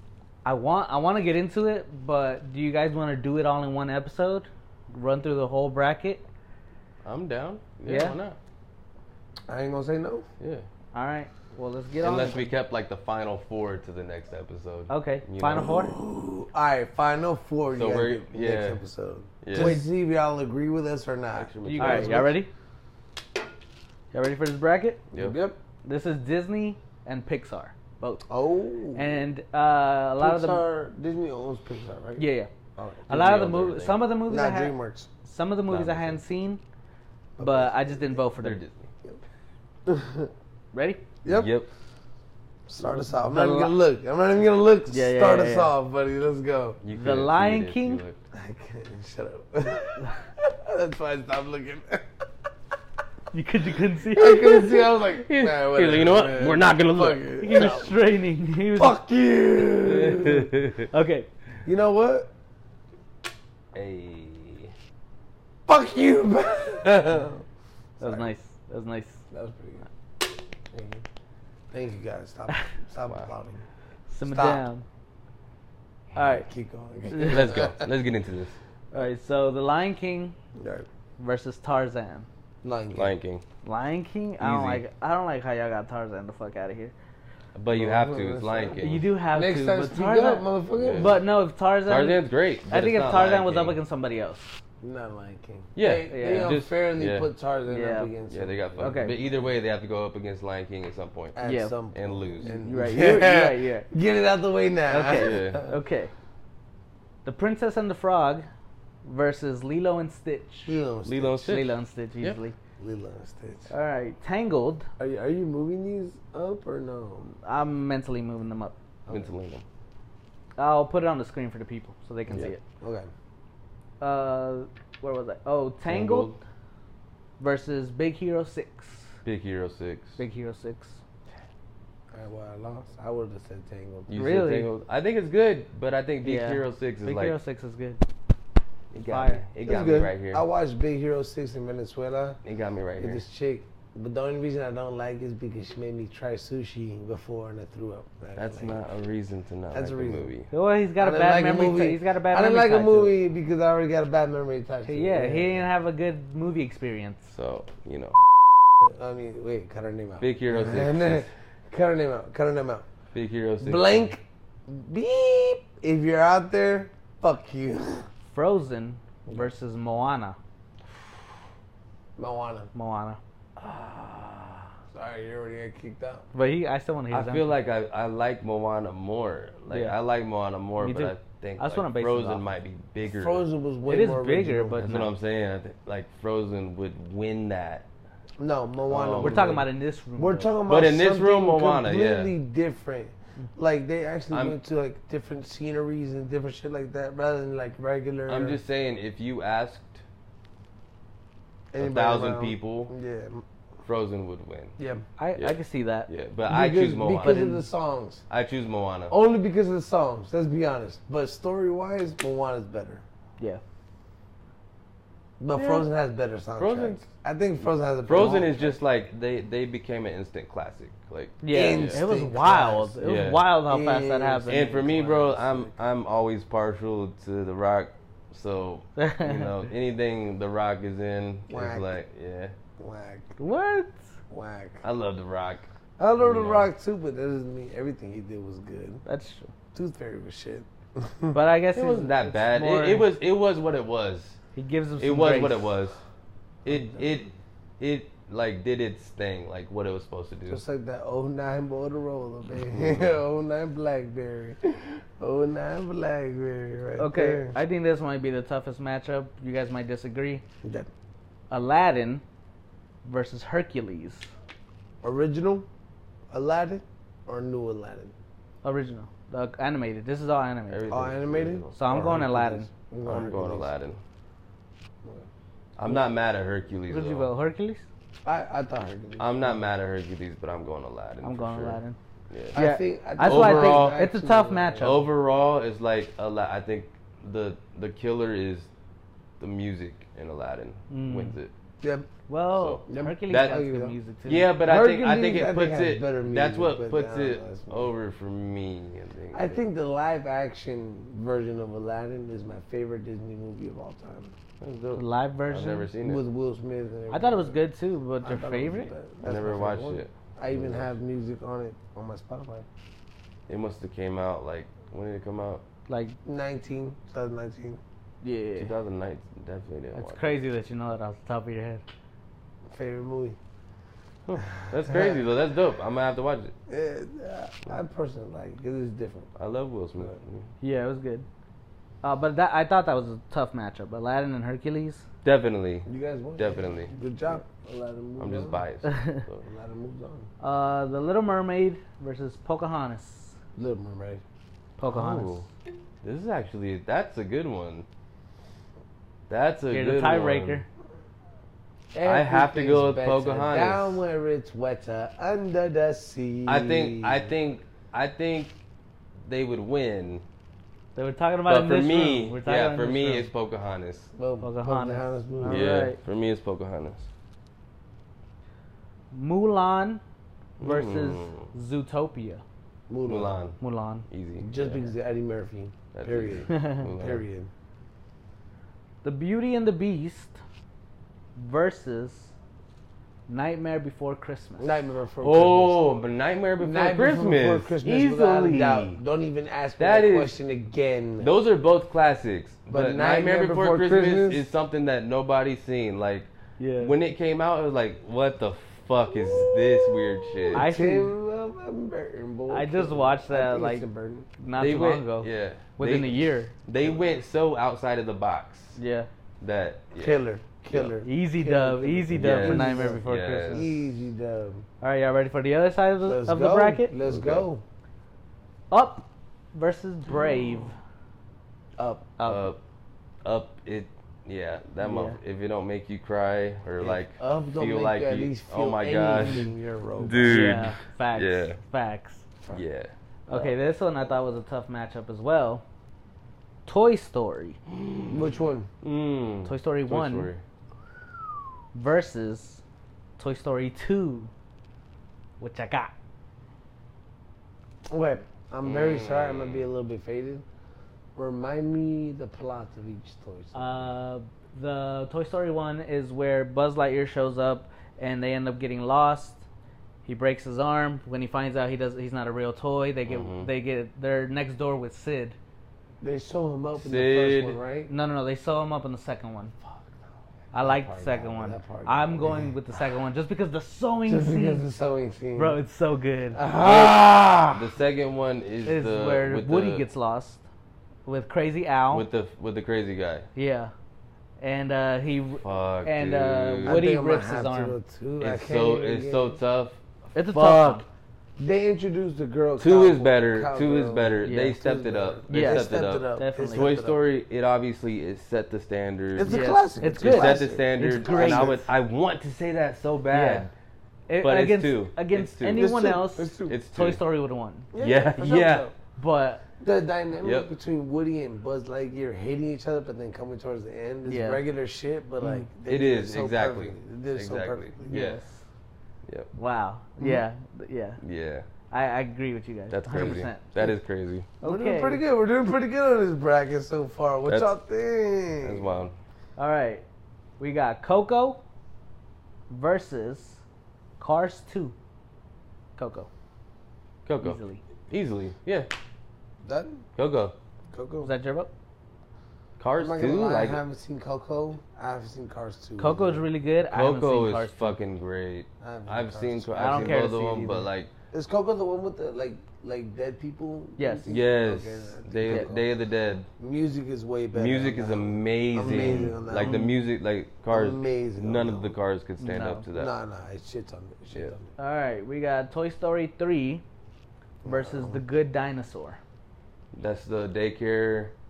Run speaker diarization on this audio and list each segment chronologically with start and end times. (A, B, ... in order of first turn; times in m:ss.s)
0:00.4-0:06.2 A
0:07.0-0:08.4 B
0:07.8-0:08.2 A
0:09.5-0:10.3 C
0:10.4-0:10.6 B
0:10.9-0:12.5 A
0:12.0-0:15.8 B
0:14.9-0:15.9 A
0:15.6-0:22.4 C
0:17.7-0:18.8 B
0:19.4-0:19.8 B
0:19.6-0:19.8 A
0:21.3-0:22.3 B
0:21.6-0:22.5 A
0:24.1-0:25.0 A
0:25.1-0:25.4 B
0:25.1-0:25.6 C
0:25.8-0:28.2 A
0:28.3-0:29.0 C
0:28.9-0:30.6 A
0:30.2-0:33.1 C
0:32.2-0:32.5 A
0:33.1-0:34.0 B
0:33.1-0:36.6 A
0:34.2-0:35.1 C
0:35.7-0:36.2 B
0:37.4-0:38.2 C
0:37.4-0:38.6 A
0:38.4-0:38.9 B
0:39.8-0:40.3 C
0:40.7-0:41.0 A
0:41.2-0:41.5 C
0:41.2-0:41.7 B
0:42.7-0:46.8 C
0:43.0-0:43.7 A
0:44.9-0:45.7 A
0:46.8-0:48.2 B
0:46.9-0:48.0 A
0:48.3-0:52.1 C
0:53.3-0:54.7 A
0:54.1-0:57.9 C
0:55.0-0:57.7 B
0:57.4-0:59.0 A
0:58.7-1:00.5 C
0:59.9-1:00.8 B
1:00.9-1:01.3 A
1:01.6-1:02.3 C
1:03.7-1:04.7 B
1:05.7-1:07.4 C
1:08.0-1:08.3 C
1:08.0-1:09.2 A
1:09.3-1:09.8 C
1:10.7-1:11.0 C
1:11.7-1:13.6 C
1:13.0-1:13.3 B
1:14.1-1:14.8 A
1:14.2-1:14.6 C
1:16.1-1:16.4 A
1:16.1-1:17.9 C
1:17.1-1:17.6 A
1:17.2-1:18.6 B
1:18.9-1:20.3 A
1:20.6-1:20.9 C
1:21.2-1:22.3 A
1:22.6-1:23.1 C
1:22.9-1:23.4 B
1:23.6-1:26.9 A
1:24.4-1:24.8 B
1:27.5-1:29.1 B
1:27.7-1:31.2 C
1:28.8-1:34.6 A
1:30.8-1:31.2 B
1:31.8-1:33.8 B
1:34.8-1:38.8 C
1:35.8-1:37.3 B
1:36.1-1:36.6 A
1:37.7-1:38.1 A
1:38.3-1:41.4 B
1:38.8-1:39.2 A
1:41.4-1:45.7 C
1:41.4-1:41.8 A
1:41.9-1:42.5 B
1:42.4-1:43.9 A
1:44.9-1:46.1 A
1:45.1-1:45.6 B
1:47.2-1:48.5 A
1:49.0-1:50.8 A
1:50.6-1:51.5 C
1:51.0-1:52.4 B
1:51.4-1:52.6 A
1:52.8-1:53.7 C
1:53.7-1:54.9 A
1:55.0-1:57.3 C
1:57.4-1:58.7 A
1:59.1-1:59.6 B
2:00.6-2:02.6 A
2:02.8-2:03.1 C
2:04.0-2:06.3 A
2:05.8-2:06.4 B
2:07.4-2:09.1 A
2:09.2-2:10.2 B
2:10.2-2:11.0 A
2:12.1-2:14.1 C
2:14.1-2:17.4 B
2:14.1-2:14.7 A
2:16.2-2:18.0 A
2:18.9-2:20.4 B
2:19.0-2:19.4 A
2:19.6-2:22.4 C
2:22.4-2:23.2 B
2:23.0-2:28.8 C
2:28.4-2:30.5 B
2:29.7-2:30.3 C
2:30.5-2:33.1 A
2:31.0-2:35.6 C
2:34.8-2:37.3 A
2:37.3-2:38.2 B
2:38.8-2:42.8 C
2:40.2-2:41.3 B
2:43.1-2:44.1 B
2:43.6-2:48.1 C
2:48.3-2:50.4 A
2:52.2-2:52.7 C
2:52.7-2:53.2 A
2:53.6-2:54.7 B
2:54.9-2:56.2 C
2:56.3-2:57.5 A
2:57.1-3:03.4 B
2:59.7-3:00.0 A
3:00.8-3:02.5 A
3:03.1-3:04.9 C
3:03.9-3:05.1 A
3:04.8-3:07.9 B
3:08.4-3:18.6 C
3:08.9-3:09.6 B
3:09.2-3:10.5 A
3:10.7-3:12.3 B
3:14.3-3:14.6 B
3:18.3-3:20.0 B
3:21.7-3:23.4 C
3:21.8-3:22.9 B
3:23.8-3:24.8 B
3:24.8-3:25.0 C
3:25.2-3:26.1 A
3:25.4-3:27.6 B
3:26.5-3:28.2 C
3:27.2-3:27.6 A
3:28.3-3:29.1 B
3:29.1-3:33.0 C
3:35.4-3:38.8 C
3:35.5-3:35.8 B
3:36.6-3:37.0 B
3:38.0-3:42.0 B
3:41.4-3:44.9 A
3:41.5-3:43.0 C
3:43.0-3:43.4 B
3:43.6-3:45.8 C
3:44.5-3:52.5 B
3:49.0-3:49.5 A
3:51.5-3:51.9 C
3:52.8-3:53.3 C
3:53.4-3:54.0 A
3:54.3-3:54.8 C
3:54.8-3:55.7 B
3:56.0-3:59.0 C
3:56.2-3:56.7 B
3:59.0-3:59.5 A
3:59.7-4:01.4 C
4:01.3-4:03.1 A
4:01.7-4:04.4 B
4:04.5-4:05.7 A
4:05.0-4:06.0 B
4:06.6-4:07.1 C
4:06.6-4:10.6 B
4:10.5-4:17.6 C
4:12.7-4:13.2 B
4:17.0-4:20.4 A
4:20.6-4:20.9 C
4:21.5-4:22.2 A
4:23.0-4:24.3 A
4:25.0-4:25.7 C
4:26.3-4:28.1 C
4:28.6-4:30.9 A
4:30.7-4:32.2 B
4:30.9-4:33.7 C
4:31.7-4:32.7 A
4:33.0-4:34.0 B
4:35.8-4:37.3 B
4:36.9-4:37.8 A
4:38.2-4:39.6 C
4:39.2-4:41.8 B
4:41.2-4:42.0 A
4:42.3-4:42.6 B
4:42.5-4:45.0 C
4:42.5-4:45.0 A
4:43.2-4:44.0 B
4:44.8-4:48.7 B
4:49.4-4:51.5 B
4:50.9-4:51.4 A
4:51.8-4:52.1 C
4:52.3-4:54.5 A
4:52.5-4:53.6 B
4:52.9-4:54.0 C
4:54.2-4:59.6 B
4:54.6-4:57.9 C
4:59.3-5:04.4 C
5:04.6-5:06.2 B
5:04.9-5:05.9 A
5:06.0-5:07.6 C
5:07.1-5:08.9 A
5:08.2-5:12.7 C
5:09.2-5:10.9 B
5:13.5-5:15.6 B
5:15.9-5:16.2 A
5:16.2-5:17.8 C
5:18.2-5:18.7 A
5:18.6-5:20.4 B
5:19.9-5:21.8 A
5:22.7-5:23.4 C
5:24.2-5:26.5 B
5:24.8-5:25.2 C
5:26.7-5:29.3 C
5:29.4-5:30.5 B
5:30.6-5:31.2 A
5:32.0-5:35.0 A
5:35.2-5:36.9 B
5:35.8-5:38.6 C
5:38.2-5:39.4 B
5:38.8-5:39.2 A
5:39.4-5:40.3 C
5:40.4-5:43.4 A
5:43.6-5:44.2 C
5:44.8-5:45.4 A
5:44.9-5:45.4 B
5:46.0-5:47.8 B
5:49.3-5:50.6 B
5:49.7-5:50.6 A
5:51.9-5:57.3 C
5:52.0-5:54.0 B
5:56.4-5:58.5 B
5:59.3-6:00.2 B
6:01.0-6:03.3 A
6:01.4-6:04.1 B
6:04.1-6:05.7 C
6:04.4-6:06.0 A
6:05.4-6:07.1 B
6:09.1-6:10.0 A
6:10.6-6:11.5 B
6:10.6-6:12.4 A
6:12.9-6:13.3 C
6:13.0-6:14.9 B
6:13.6-6:14.0 A
6:14.4-6:17.5 C
6:15.9-6:17.2 B
6:16.5-6:16.8 A
6:19.0-6:20.4 A
6:21.4-6:22.3 A
6:23.3-6:24.9 A
6:24.6-6:25.9 C
6:25.2-6:29.0 B
6:26.6-6:31.3 C
6:29.8-6:30.3 B
6:31.2-6:40.7 B
6:32.7-6:34.5 C
6:36.6-6:36.9 A
6:40.5-6:44.3 C
6:40.5-6:41.1 A
6:42.5-6:43.8 A
6:44.4-6:46.5 A
6:44.6-6:48.8 B
6:48.8-6:49.1 A
6:49.4-6:50.2 B
6:49.9-6:54.6 C
6:51.0-6:53.7 A
6:52.1-6:53.6 B
6:54.8-6:56.9 A
6:56.0-6:57.6 C
6:57.0-6:57.5 B
6:58.7-7:00.8 A
7:01.8-7:02.1 C
7:02.2-7:02.5 A
7:02.2-7:02.6 B
7:03.2-7:11.6 B
7:04.8-7:05.2 A
7:06.8-7:10.6 C
7:10.2-7:12.2 A
7:12.5-7:12.9 B
7:13.3-7:15.6 A
7:16.6-7:17.6 A
7:17.7-7:18.2 B
7:18.1-7:18.7 C
7:18.8-7:20.4 B
7:19.4-7:20.3 A
7:21.7-7:22.6 A
7:23.2-7:24.3 A
7:25.4-7:25.9 A
7:27.9-7:30.4 C
7:28.6-7:29.6 B
7:31.1-7:33.9 C
7:33.5-7:39.4 A
7:40.0-7:45.4 A
7:43.1-7:43.5 B
7:46.0-7:47.9 C
7:46.8-7:47.6 B
7:47.9-7:49.5 A
7:50.5-7:52.5 C
7:50.5-7:54.6 A
7:54.1-7:55.6 C
7:55.4-7:56.4 A
7:56.3-7:57.7 C
7:56.6-7:59.8 B
7:58.6-8:00.4 A
8:01.0-8:02.1 A
8:01.9-8:03.3 B
8:03.3-8:03.7 A
8:04.4-8:07.8 A
8:05.4-8:06.8 B
8:06.6-8:09.4 C
8:08.2-8:10.8 B
8:10.1-8:10.8 A
8:11.4-8:17.0 C
8:12.6-8:23.5 B
8:14.2-8:14.6 A
8:15.3-8:16.7 A
8:19.1-8:21.6 C
8:19.2-8:21.6 A
8:23.1-8:23.5 A
8:24.1-8:27.7 A
8:24.2-8:25.8 B
8:25.5-8:26.6 C
8:26.5-8:27.0 B
8:27.7-8:28.7 C
8:27.8-8:28.7 B
8:29.0-8:29.4 A
8:29.6-8:38.1 C
8:30.2-8:30.5 B
8:34.0-8:34.4 A
8:35.2-8:35.5 A
8:35.6-8:38.2 B
8:37.9-8:38.4 A
8:39.3-8:41.0 A
8:41.0-8:41.4 B
8:41.7-8:43.7 A
8:42.7-8:44.3 B
8:44.4-8:45.0 A
8:44.4-8:48.8 C
8:47.3-8:47.5 B
8:48.4-8:49.0 B
8:49.4-8:49.8 A
8:50.4-8:51.4 A
8:52.5-8:53.4 A
8:54.0-8:54.7 A
8:55.8-8:56.1 A
8:57.0-8:58.7 B
8:57.2-8:57.6 A
8:59.4-8:59.8 C
9:00.0-9:00.3 B
9:00.7-9:01.1 C
9:01.0-9:01.5 A
9:02.6-9:03.6 B
9:02.8-9:06.2 C
9:05.8-9:07.8 A
9:06.7-9:10.9 B
9:08.6-9:10.1 C
9:09.5-9:10.7 A
9:11.1-9:15.7 C
9:13.8-9:14.1 A
9:14.1-9:16.3 B
9:15.2-9:15.5 A
9:16.4-9:19.6 C
9:17.3-9:22.9 B
9:19.0-9:19.8 A
9:20.5-9:21.8 C
9:22.2-9:22.7 A
9:22.7-9:24.5 C
9:24.6-9:26.6 A
9:27.4-9:28.0 C
9:27.4-9:29.0 A
9:29.7-9:31.1 B